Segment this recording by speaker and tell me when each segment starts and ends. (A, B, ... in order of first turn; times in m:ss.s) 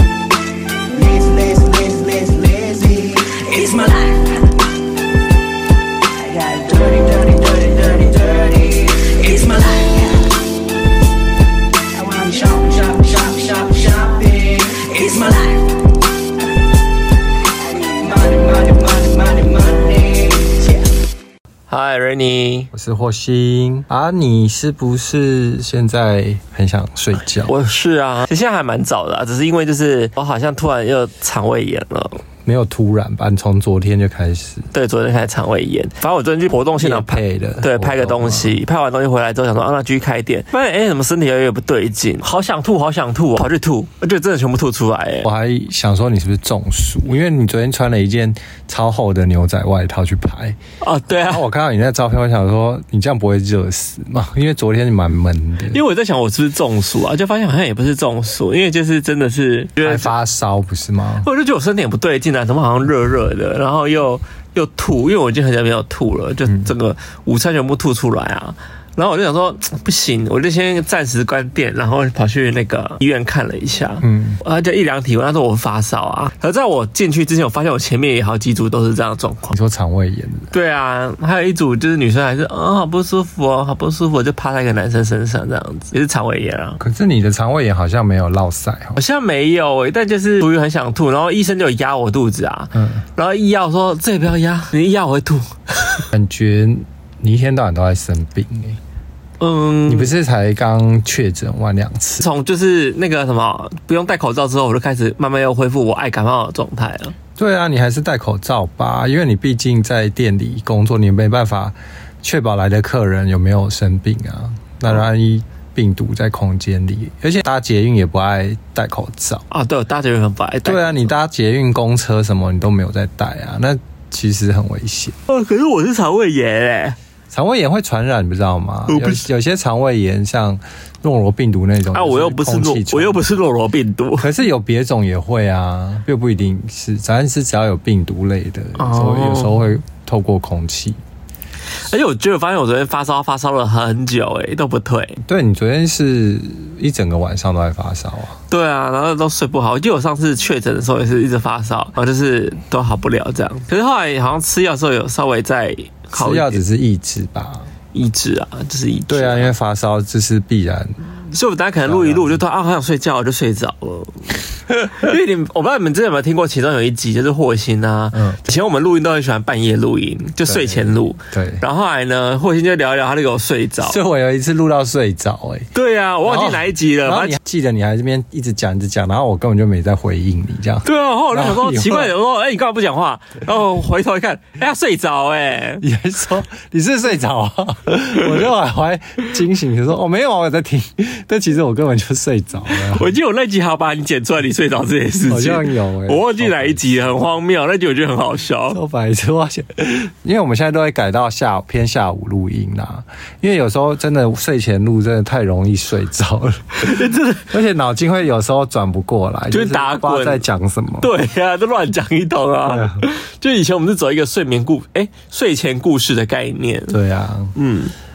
0:00.9-0:04.5 A
0:06.1-0:10.4 A
0:11.9-0:15.8 A
0:17.7-0:20.9 A
0:21.7-0:22.7 B
0:22.7-0:27.5 C
0:27.5-0:32.2 B
0:32.4-0:34.7 C
0:34.7-0:45.3 B
0:36.8-0:38.6 C
0:45.2-0:50.6 C
0:50.8-0:51.4 B
0:51.2-0:55.8 C
0:55.7-1:00.1 B
0:59.8-1:01.3 C
1:01.2-1:19.6 B
1:14.0-1:14.4 C
1:19.5-1:20.5 C
1:20.5-1:26.8 B
1:26.8-1:29.0 C
1:29.0-1:36.0 B
1:32.8-1:33.0 C
1:36.1-1:38.8 C
1:39.4-1:40.1 B
1:39.9-1:42.3 C
1:42.2-1:47.2 B
1:47.4-1:59.4 C
1:59.5-2:01.1 B
2:00.6-2:05.2 C
2:05.3-2:07.0 B
2:07.3-2:13.2 C
2:08.9-2:09.2 B
2:11.9-2:14.3 B
2:14.2-2:21.0 C
2:18.8-2:19.6 B
2:21.8-2:25.2 B
2:25.2-2:28.4 C
2:28.5-2:36.6 B
2:36.1-2:37.7 C
2:37.9-2:39.5 B
2:39.1-2:41.0 C
2:41.3-2:54.0 B
2:41.8-2:42.4 C
2:50.4-2:51.6 C
2:53.8-2:55.7 C
2:55.7-2:57.4 B
2:56.2-3:02.1 C
3:00.8-3:05.8 B
3:05.8-3:13.1 C
3:12.7-3:18.8 B
3:15.3-3:17.1 C
3:18.7-3:31.1 C
3:26.8-3:27.5 B
3:29.5-3:30.4 B
3:31.0-3:37.0 B
3:32.7-3:33.0 C
3:36.9-3:37.5 C
3:37.5-3:37.9 B